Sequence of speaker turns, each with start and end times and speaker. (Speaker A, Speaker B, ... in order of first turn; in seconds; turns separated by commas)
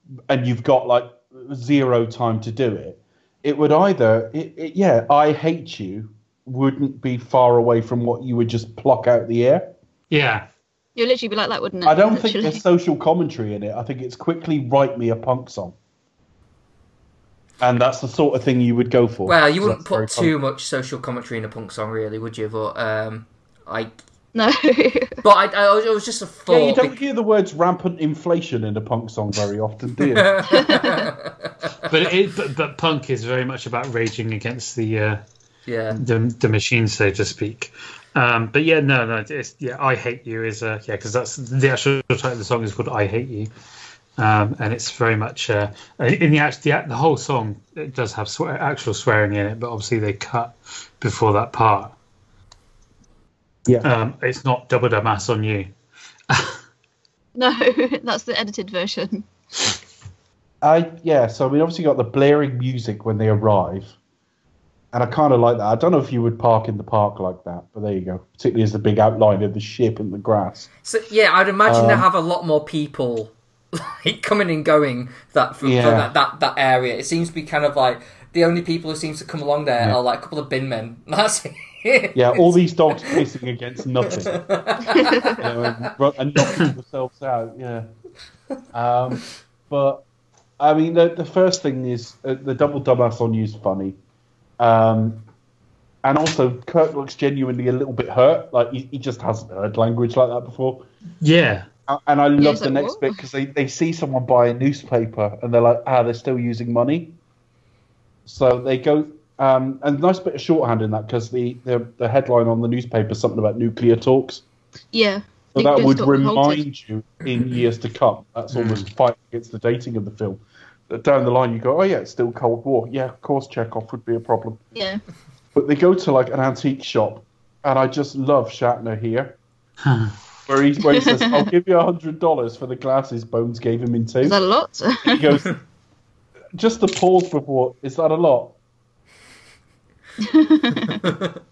Speaker A: 0.3-9.7, Speaker B: 10.1-10.5, Speaker C: 11.0-12.6, Speaker A: 11.8-15.8, Speaker A: 17.6-20.3, Speaker D: 19.3-24.0, Speaker C: 24.4-25.2, Speaker D: 25.2-27.0, Speaker A: 26.5-30.4, Speaker D: 30.1-31.5, Speaker B: 31.9-35.2, Speaker D: 35.7-36.0, Speaker B: 35.9-43.5, Speaker B: 44.2-52.0, Speaker B: 53.8-55.7, Speaker B: 56.3-56.6, Speaker C: 57.4-59.2, Speaker A: 60.6-64.0, Speaker A: 64.9-70.7, Speaker D: 70.8-83.2, Speaker A: 71.7-72.1, Speaker A: 75.6-76.1, Speaker A: 82.2-84.4, Speaker D: 84.0-85.8, Speaker A: 85.3-87.9, Speaker A: 88.7-90.0, Speaker A: 90.6-94.0, Speaker A: 94.6-95.2, Speaker A: 96.0-100.9, Speaker B: 101.2-101.7, Speaker A: 101.9-107.2, Speaker C: 102.4-103.2, Speaker A: 108.3-114.4, Speaker C: 114.9-116.6, Speaker A: 115.5-124.6, Speaker B: 118.5-118.8, Speaker C: 124.8-125.0, Speaker A: 125.5-129.4, Speaker B: 129.8-130.1, Speaker A: 130.5-134.4, Speaker C: 131.0-131.4, Speaker C: 134.2-135.2, Speaker A: 135.1-135.6, Speaker A: 136.6-138.6, Speaker C: 140.2-141.0